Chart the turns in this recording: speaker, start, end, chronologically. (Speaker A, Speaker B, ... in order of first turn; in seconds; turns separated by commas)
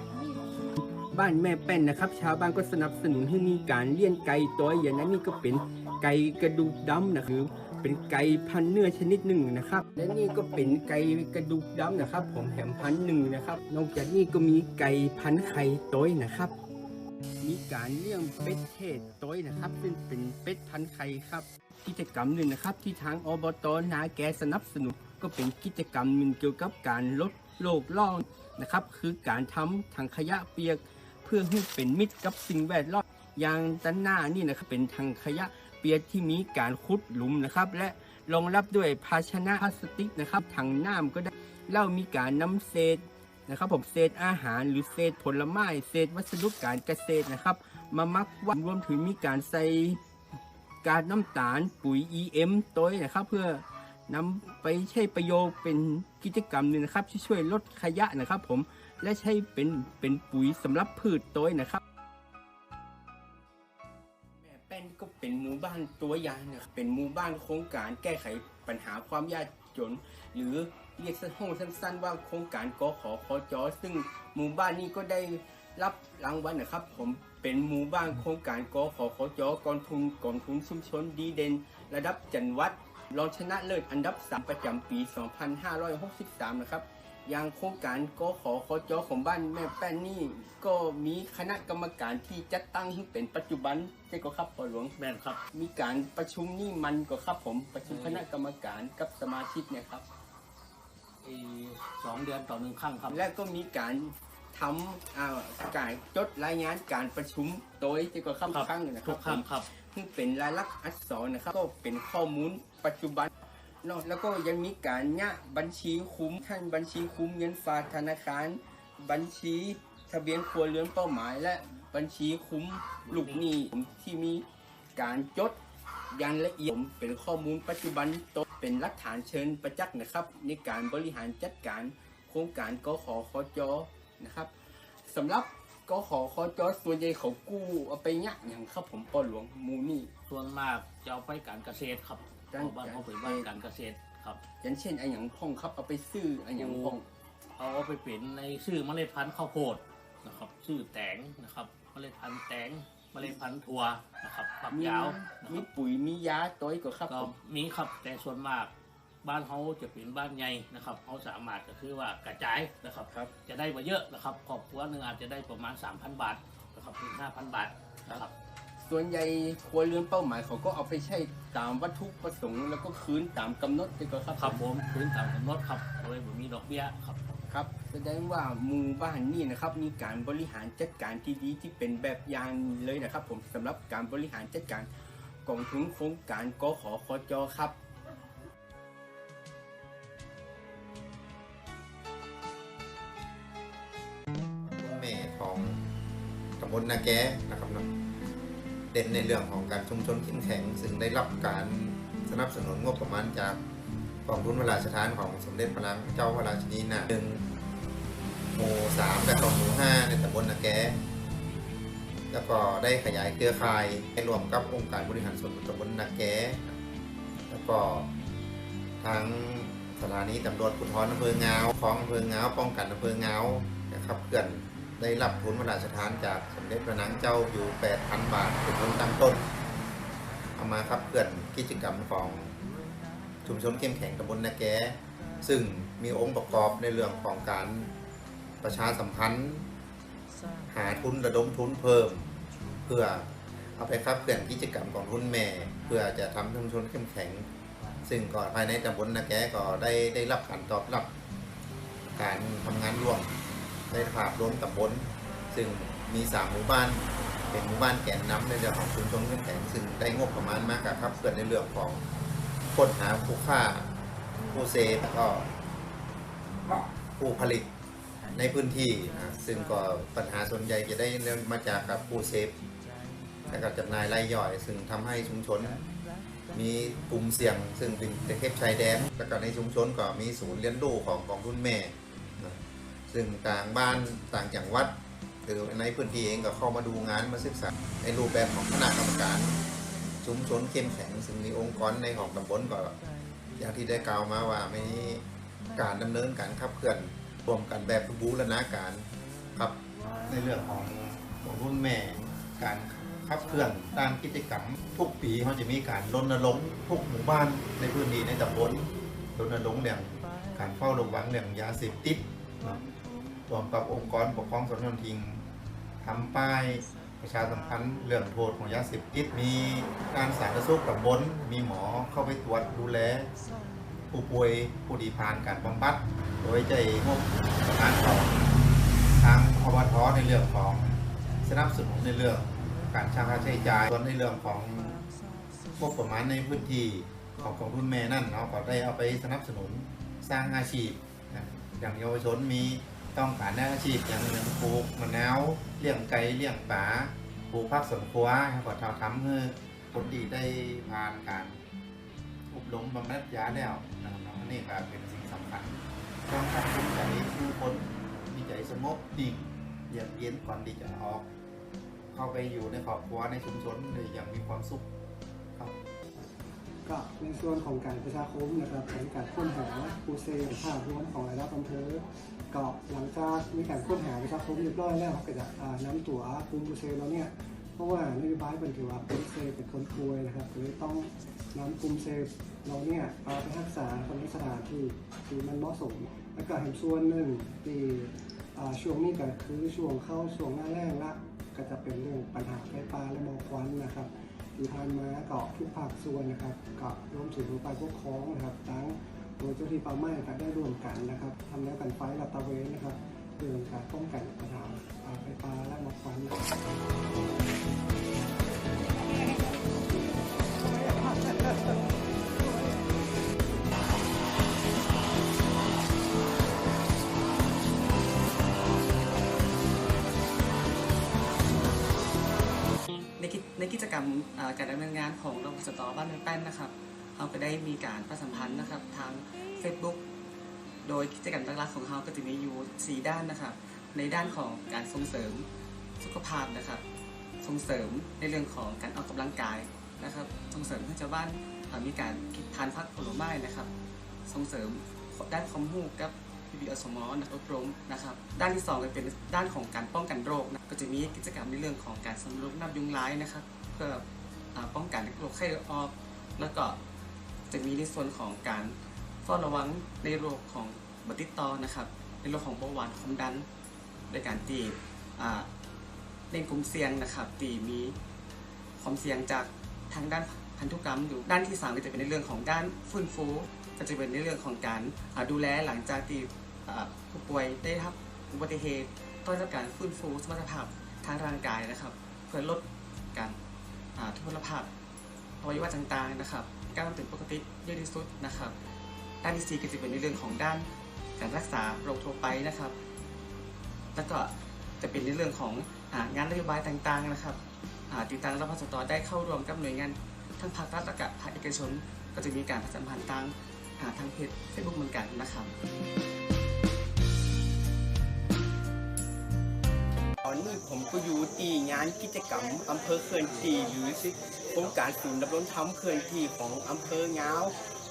Speaker A: 1.0-16.5, Speaker A: 17.4-50.0, Speaker A: 50.8-61.8, Speaker A: 64.4-94.9, Speaker B: 95.0-95.4, Speaker A: 95.5-100.0, Speaker B: 97.8-98.2, Speaker B: 101.2-103.2, Speaker A: 103.1-113.3, Speaker B: 108.5-109.7, Speaker A: 113.8-124.4, Speaker B: 123.0-123.5, Speaker A: 125.0-125.6, Speaker A: 126.1-134.5, Speaker A: 135.1-140.1, Speaker B: 140.3-144.4, Speaker A: 142.5-143.5, Speaker A: 144.6-147.1, Speaker B: 146.6-147.0, Speaker B: 147.6-155.7, Speaker A: 154.7-157.3, Speaker B: 157.1-158.7, Speaker B: 159.2-168.3, Speaker A: 168.8-174.6, Speaker B: 174.4-177.2, Speaker A: 177.5-184.9, Speaker A: 185.4-187.8, Speaker C: 194.8-195.8, Speaker C: 196.6-197.9, Speaker C: 198.9-203.6, Speaker C: 204.2-207.4, Speaker C: 208.5-211.0, Speaker C: 212.3-216.7, Speaker C: 217.5-218.1, Speaker C: 219.0-229.5, Speaker C: 230.6-232.6, Speaker C: 233.4-237.9, Speaker C: 238.6-239.7, Speaker C: 240.7-242.3, Speaker C: 242.8-247.5, Speaker C: 248.1-251.1, Speaker C: 252.2-253.3, Speaker C: 253.9-262.1, Speaker C: 262.7-263.9, Speaker C: 264.5-265.5, Speaker C: 266.7-267.7, Speaker C: 268.3-272.6, Speaker C: 273.5-275.8, Speaker C: 276.5-289.6, Speaker C: 290.2-293.0, Speaker C: 293.6-312.9, Speaker C: 313.5-315.5, Speaker C: 316.0-323.3, Speaker C: 324.1-328.5, Speaker C: 329.2-335.1, Speaker C: 335.8-351.6, Speaker C: 352.5-361.3, Speaker C: 362.1-364.9, Speaker D: 366.9-406.5, Speaker D: 410.8-411.4, Speaker E: 423.2-430.0, Speaker E: 430.8-435.5, Speaker E: 436.0-436.8, Speaker E: 437.4-443.7, Speaker E: 444.3-456.8, Speaker E: 457.5-463.5, Speaker E: 464.1-465.5, Speaker E: 466.3-467.9, Speaker E: 468.8-483.4, Speaker E: 484.0-484.7, Speaker E: 485.4-488.6, Speaker E: 489.2-490.7, Speaker E: 491.2-492.8, Speaker E: 493.9-505.5, Speaker A: 510.2-517.5